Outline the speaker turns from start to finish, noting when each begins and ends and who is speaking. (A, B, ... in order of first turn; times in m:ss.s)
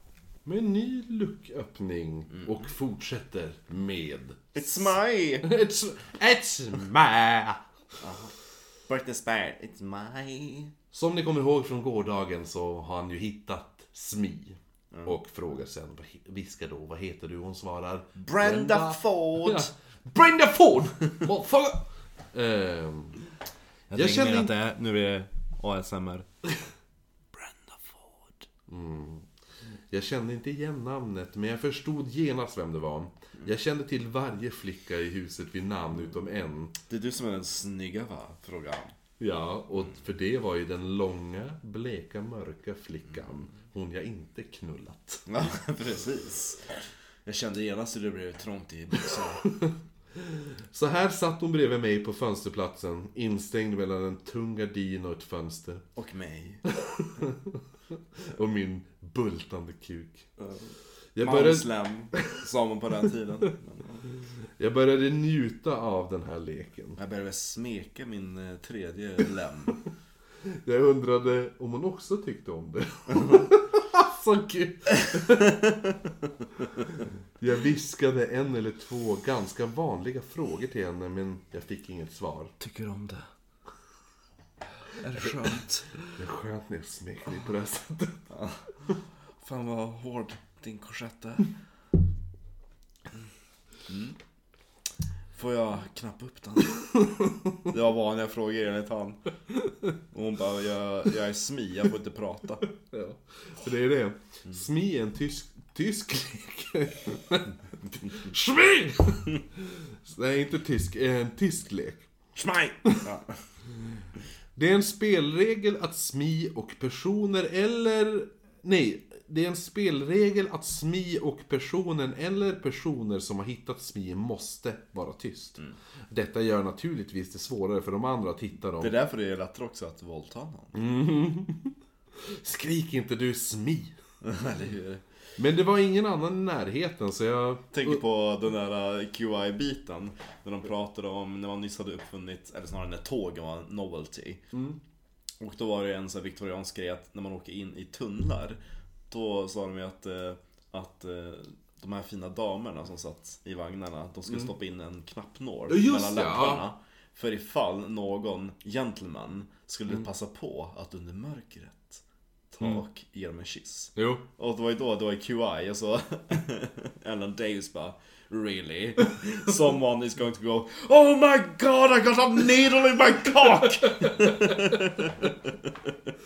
0:00.4-0:07.6 A
0:04.6-0:05.5 B
0:08.0-0:08.4 B
0:08.9-0:10.7 B
0:10.9-0:23.3 A
0:14.9-0:15.2 B
0:18.2-0:19.7 B
0:23.9-0:26.3 B
0:23.9-0:24.5 A
0:27.4-0:28.4 B
0:28.7-0:29.3 A
0:29.9-0:36.8 A
0:36.9-0:38.9 B
0:39.2-0:45.3 A
0:45.3-0:49.4 B
0:49.2-0:55.8 A
0:56.0-0:56.6 B
0:56.7-0:57.6 A
0:58.3-1:00.3 A
1:00.4-1:00.7 B
1:01.2-1:02.4 A
1:01.2-1:04.1 B
1:04.6-1:07.0 A
1:07.0-1:09.8 B
1:10.4-1:15.6 A
1:16.8-1:22.5 A
1:22.6-1:23.3 B
1:25.0-1:26.1 B
1:26.1-1:28.2 A
1:28.3-1:31.5 B
1:33.9-1:34.2 B
1:35.3-1:36.8 B
1:37.7-1:39.3 B
1:40.1-1:42.6 B
1:42.7-1:52.0 A
1:52.4-1:53.4 B
1:54.6-2:08.9 A
2:08.8-2:10.8 B
2:10.7-2:11.8 A
2:12.3-2:13.9 A
2:14.2-2:15.0 B
2:15.4-2:18.0 A
2:17.7-2:24.4 B
2:24.5-2:24.8 A
2:25.4-2:28.6 B
2:29.1-2:55.7 B
2:35.7-2:36.6 A
2:44.0-2:44.2 A
2:53.9-2:54.8 A